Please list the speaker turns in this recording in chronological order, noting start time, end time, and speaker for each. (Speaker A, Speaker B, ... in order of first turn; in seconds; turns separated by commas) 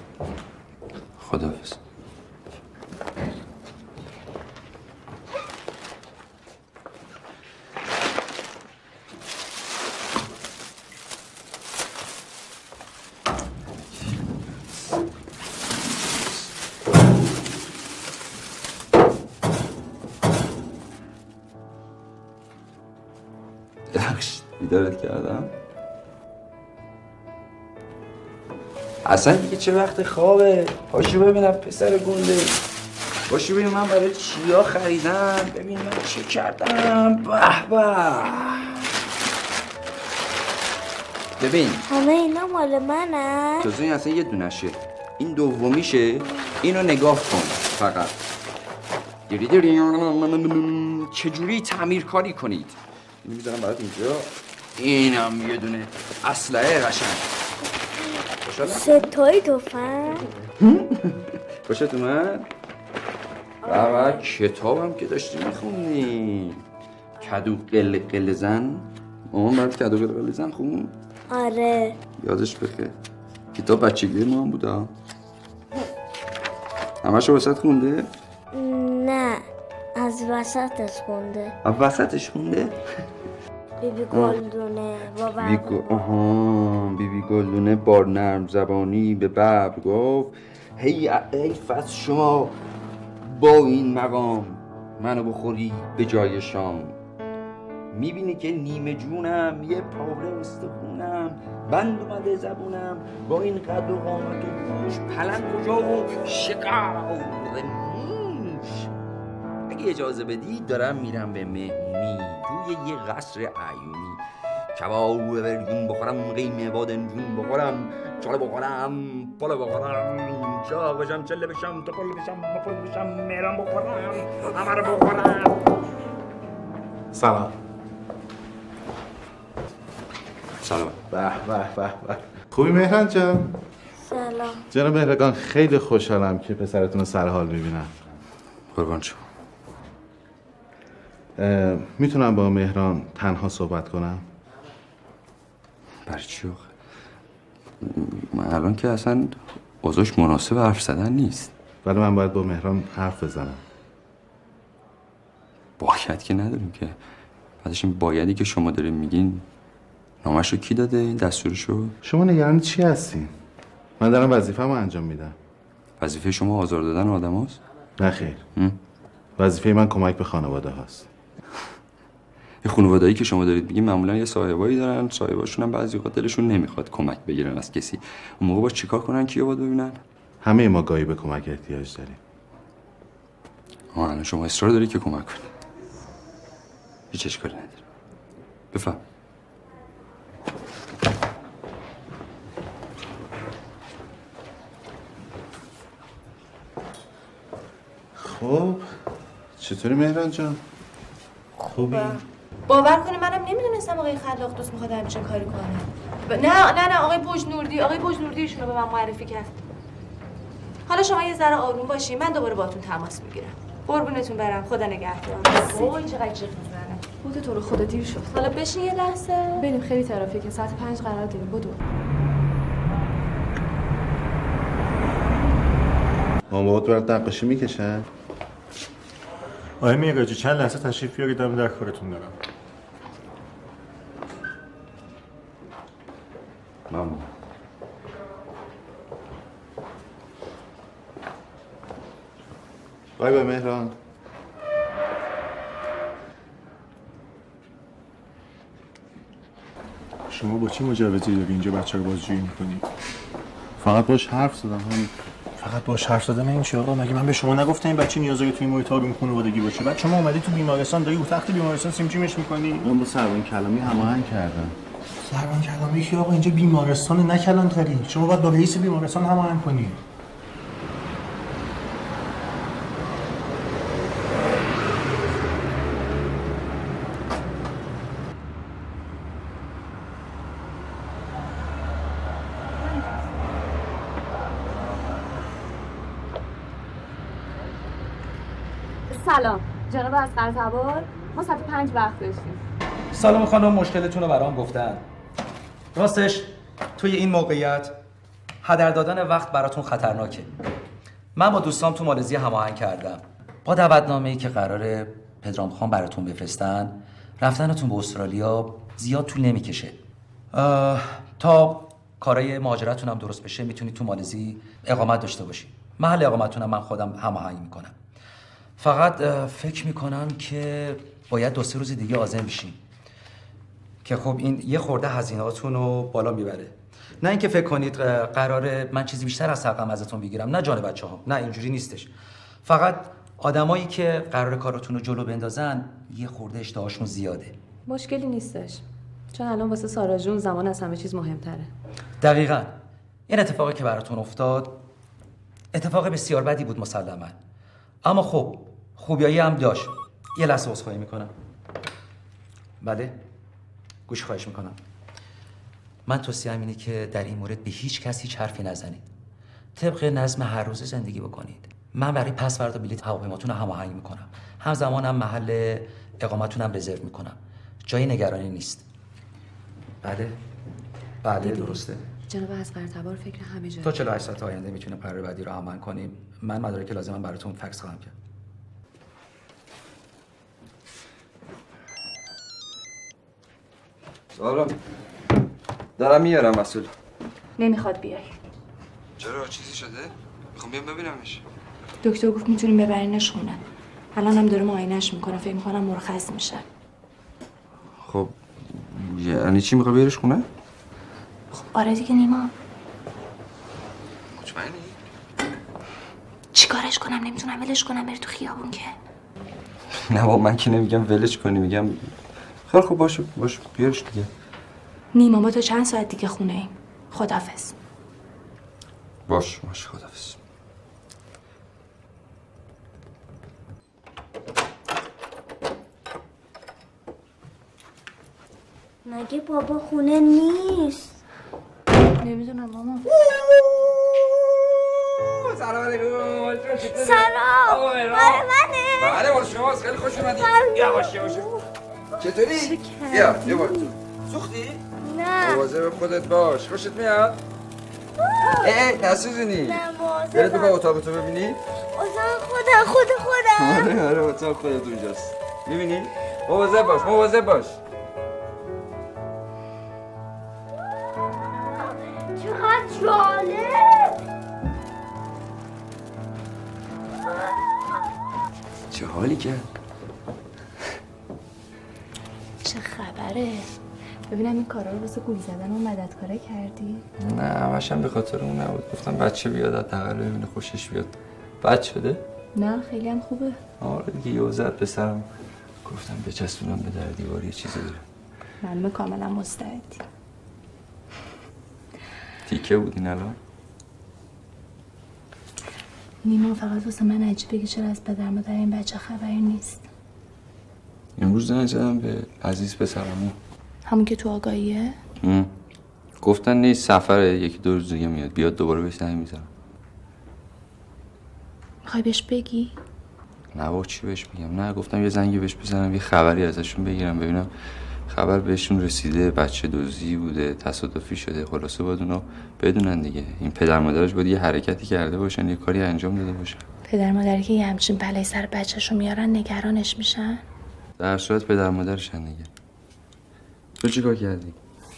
Speaker A: 1.2-1.8, Speaker A: 23.9-25.5, Speaker A: 29.0-32.6, Speaker A: 33.3-38.9, Speaker A: 41.4-41.9, Speaker B: 41.9-43.7, Speaker A: 43.6-48.1, Speaker A: 49.3-57.3, Speaker A: 58.4-59.1, Speaker B: 58.6-60.3, Speaker A: 60.6-62.5, Speaker A: 63.6-66.6, Speaker A: 67.2-70.9, Speaker B: 71.3-72.0, Speaker A: 72.2-73.0, Speaker A: 73.5-74.9, Speaker A: 77.0-78.1, Speaker B: 78.5-79.4, Speaker B: 80.0-81.5, Speaker A: 81.6-82.8, Speaker B: 83.8-86.0, Speaker A: 84.1-84.4, Speaker A: 85.4-92.6, Speaker A: 93.2-97.0, Speaker A: 97.9-108.9, Speaker A: 109.7-114.2, Speaker A: 114.7-125.7, Speaker C: 127.1-127.5, Speaker A: 130.6-131.0, Speaker C: 131.1-133.5, Speaker B: 134.0-134.6, Speaker C: 134.7-137.9, Speaker A: 138.7-139.2, Speaker C: 141.4-144.2, Speaker A: 146.1-146.7, Speaker A: 147.8-151.5, Speaker C: 151.8-153.6, Speaker A: 155.8-157.0, Speaker A: 157.6-159.4, Speaker A: 160.2-161.9, Speaker C: 162.0-163.3, Speaker C: 164.0-165.3, Speaker A: 166.0-167.6, Speaker C: 168.0-168.4, Speaker C: 169.4-171.1, Speaker A: 172.6-180.0, Speaker C: 180.4-182.2, Speaker A: 183.9-185.5, Speaker A: 187.1-187.8, Speaker A: 188.7-189.0, Speaker C: 198.2-198.9, Speaker C: 199.6-200.6, Speaker C: 201.6-202.2, Speaker D: 202.7-209.5, Speaker D: 210.8-217.0, Speaker E: 217.2-218.3, Speaker D: 218.3-219.7, Speaker E: 219.6-221.8, Speaker C: 226.5-228.1, Speaker F: 229.8-232.3, Speaker A: 236.9-237.3, Speaker C: 243.2-243.9, Speaker F: 250.3-252.8, Speaker C: 253.8-255.1, Speaker F: 255.6-262.9, Speaker C: 262.8-264.8, Speaker F: 265.2-270.0, Speaker D: 291.2-292.4, Speaker G: 293.1-295.0, Speaker G: 295.9-297.9, Speaker G: 298.6-300.5, Speaker G: 301.4-310.0, Speaker G: 310.5-317.9, Speaker G: 318.8-322.8, Speaker G: 324.0-332.1, Speaker G: 332.6-337.6, Speaker E: 337.9-341.7, Speaker G: 342.2-342.8, Speaker G: 343.3-344.8, Speaker G: 345.7-347.4, Speaker G: 348.0-351.3, Speaker G: 352.8-353.2, Speaker G: 354.1-354.8, Speaker G: 356.1-359.0, Speaker G: 359.8-368.8, Speaker G: 370.0-370.4, Speaker G: 371.2-372.0, Speaker E: 371.4-373.9, Speaker G: 373.8-378.1, Speaker A: 384.3-384.8, Speaker A: 386.0-386.9, Speaker D: 387.6-388.3, Speaker A: 389.2-391.4, Speaker D: 392.0-393.6, Speaker D: 394.1-396.6, Speaker A: 398.0-400.5, Speaker D: 401.5-402.5, Speaker A: 404.3-405.0, Speaker D: 406.5-408.9, Speaker A: 409.9-412.1, Speaker A: 412.7-414.3, Speaker D: 415.1-417.7, Speaker A: 419.3-420.4, Speaker B: 429.0-431.1, Speaker D: 432.2-433.1, Speaker A: 435.2-441.5, Speaker B: 436.8-439.3, Speaker B: 440.1-441.6, Speaker A: 442.2-444.8, Speaker D: 442.5-443.7, Speaker B: 445.0-445.6, Speaker A: 445.4-447.4, Speaker B: 448.4-448.7, Speaker A: 448.6-451.6, Speaker B: 449.6-450.8, Speaker B: 451.9-453.9, Speaker A: 453.5-457.8, Speaker B: 461.8-464.2, Speaker A: 468.9-469.7, Speaker D: 472.6-473.7, Speaker D: 474.3-477.1, Speaker A: 477.2-482.2, Speaker D: 482.5-483.6, Speaker A: 483.8-485.3, Speaker A: 485.8-488.0, Speaker D: 488.6-490.0, Speaker A: 492.4-493.4, Speaker D: 496.2-499.8, Speaker A: 501.2-503.4, Speaker D: 503.9-505.0, Speaker A: 505.2-505.5, Speaker A: 506.2-509.5, Speaker D: 511.8-512.8, Speaker A: 513.5-517.5, Speaker A: 518.1-526.6, Speaker D: 526.8-530.4, Speaker A: 531.0-532.5, Speaker A: 533.8-534.6